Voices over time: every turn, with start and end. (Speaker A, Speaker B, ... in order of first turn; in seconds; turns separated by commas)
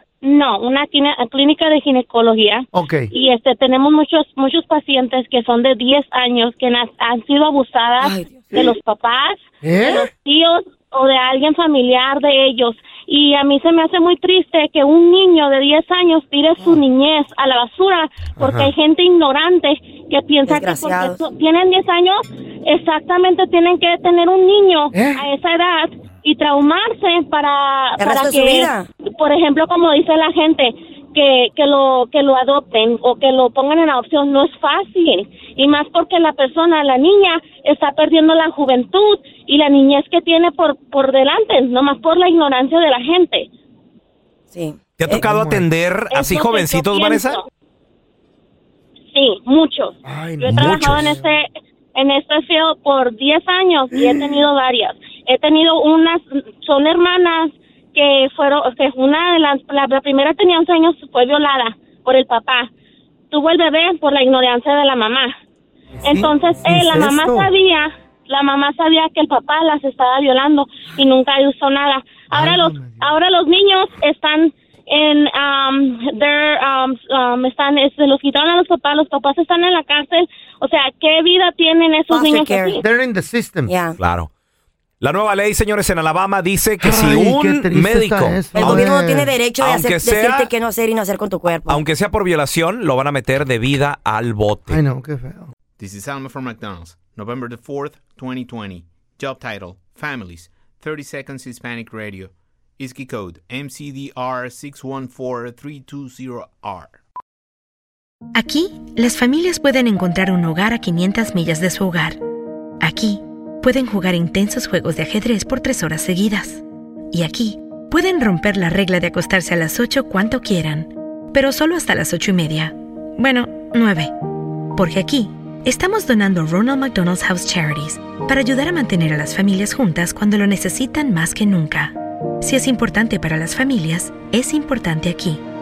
Speaker A: 0.2-43.5, Speaker B: 2.7-3.1, Speaker C: 8.1-8.5, Speaker B: 9.6-10.1, Speaker B: 18.4-18.7, Speaker C: 20.5-21.1, Speaker B: 24.9-25.3, Speaker C: 28.0-28.9, Speaker C: 44.5-45.2, Speaker D: 45.0-47.4, Speaker B: 45.2-45.6, Speaker A: 46.1-47.4, Speaker A: 49.1-62.7, Speaker B: 50.0-51.3, Speaker D: 50.5-51.1, Speaker A: 63.3-65.3, Speaker B: 66.0-67.5, Speaker A: 66.0-82.8, Speaker B: 72.3-73.2, Speaker C: 82.1-82.8, Speaker B: 82.8-83.7, Speaker C: 83.7-84.0, Speaker D: 84.0-84.3, Speaker D: 85.0-88.5, Speaker B: 86.8-89.3, Speaker C: 88.5-91.8, Speaker D: 89.6-90.5, Speaker D: 91.7-94.8, Speaker B: 94.7-95.5, Speaker E: 95.8-107.0, Speaker F: 108.3-112.2, Speaker F: 112.8-124.1, Speaker F: 124.7-135.4